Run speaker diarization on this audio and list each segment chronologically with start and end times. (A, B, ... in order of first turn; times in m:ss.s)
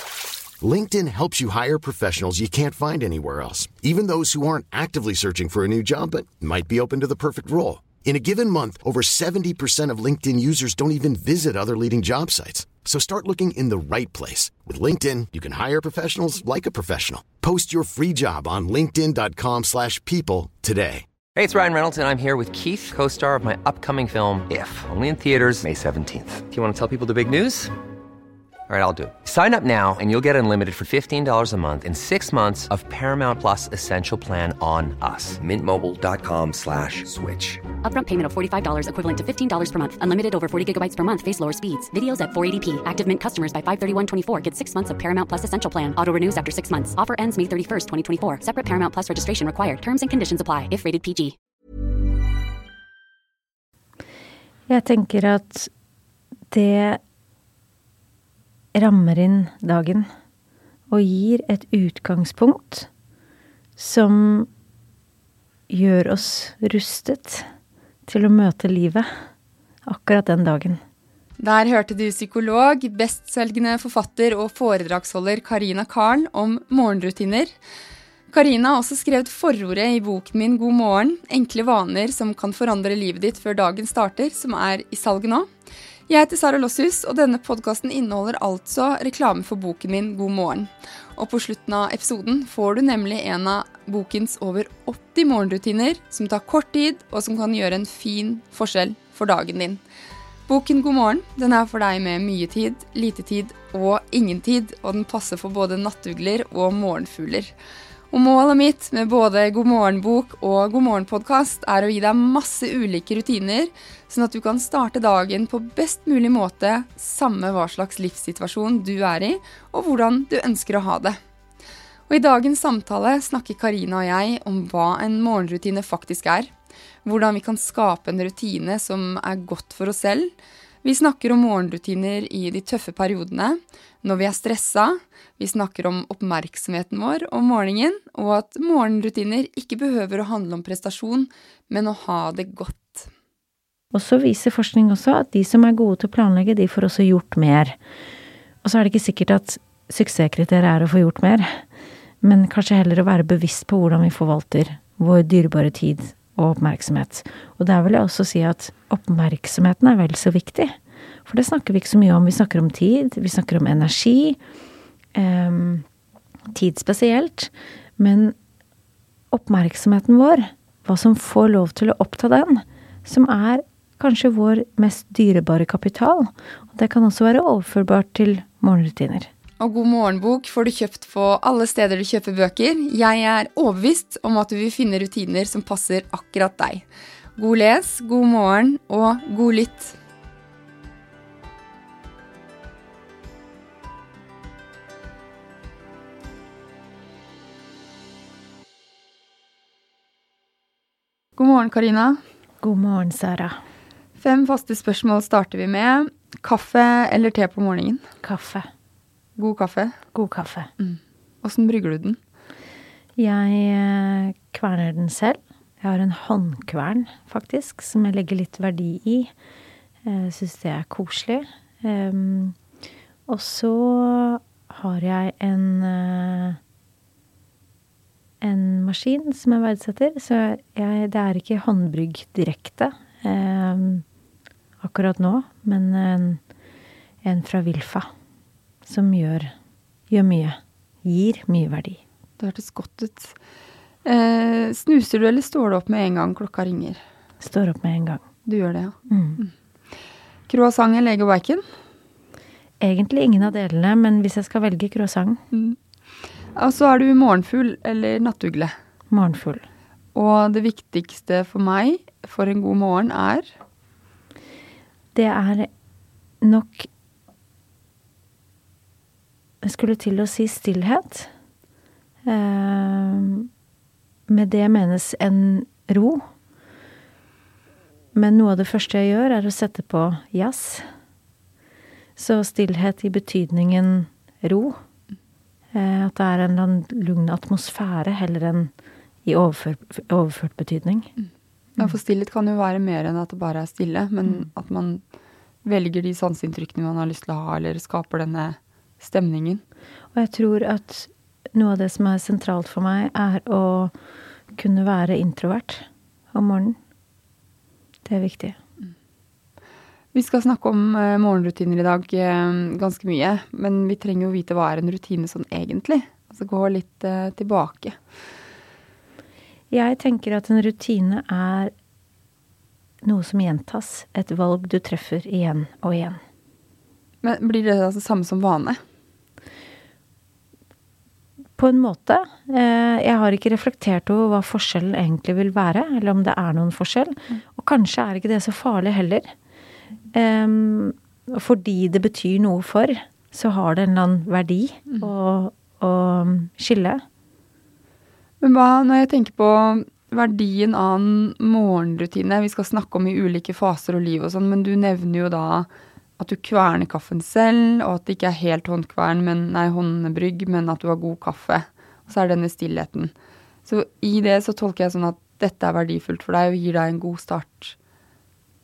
0:00.6-0:21.0 A
0:21.4-0:27.7 B
0:28.7-0:37.6 B
0:37.8-0:51.4 C
0:54.7-0:55.7 D
0:56.5-0:57.0 D
0:58.7-1:00.1 D
1:00.9-1:02.9 D
1:03.8-1:04.5 D
1:05.7-1:07.5 D
1:08.1-1:09.1 D
1:09.8-1:10.8 D
1:11.4-1:17.5 E
1:18.3-1:25.5 E
1:26.1-1:39.8 E
1:40.5-1:47.5 E
1:48.1-2:01.2 E
2:02.1-2:06.5 E
2:07.0-2:10.3 E
2:10.8-2:23.1 E
2:23.9-2:27.8 D
2:28.6-2:31.6 D
2:32.2-2:44.4 D
2:45.1-2:45.8 D
2:46.5-2:48.4 D
2:49.3-2:59.3 D
2:59.6-3:06.8 E
3:07.4-3:10.0 E
3:21.4-3:22.2 E
3:22.6-3:23.6 D
3:24.2-3:28.0 E
3:28.2-3:28.7 D
3:29.4-3:30.0 E
3:30.1-3:30.7 D
3:30.8-3:32.2 E
3:33.2-3:39.3 D
3:40.0-3:42.6 D
3:43.3-3:46.6 D
3:48.4-3:54.0 D
3:54.8-3:56.4 D
3:57.2-3:58.1 D
3:58.8-3:59.5 D
4:00.1-4:02.0 D
4:02.4-4:03.3 E
4:04.0-4:07.0 E
4:07.4-4:08.2 D
4:08.4-4:09.5 E
4:09.1-4:09.4 D
4:10.5-4:11.6 E
4:12.8-4:15.4 D
4:16.6-4:18.7 E
4:19.1-4:19.6 D
4:20.1-4:23.5 E
4:25.1-4:25.7 D
4:26.4-4:26.9 D
4:29.6-4:31.3 D
4:32.2-4:33.5 D
4:34.3-4:36.2 D
4:38.1-4:40.9 D
4:42.2-4:44.8 D
4:45.7-4:48.7 D
4:49.2-4:51.1 D
4:51.8-4:55.0 E
4:55.6-4:59.6 E
5:00.1-5:03.9 D
5:04.5-5:06.8 D
5:08.0-5:08.6 D
5:10.1-5:18.0 E
5:19.7-5:21.7 D
5:23.0-5:26.2 D
5:27.2-5:28.8 E
5:31.6-5:39.3 D
5:40.1-5:47.0 D
5:48.4-5:55.7 E
5:56.2-6:03.1 E
6:03.6-6:07.8 E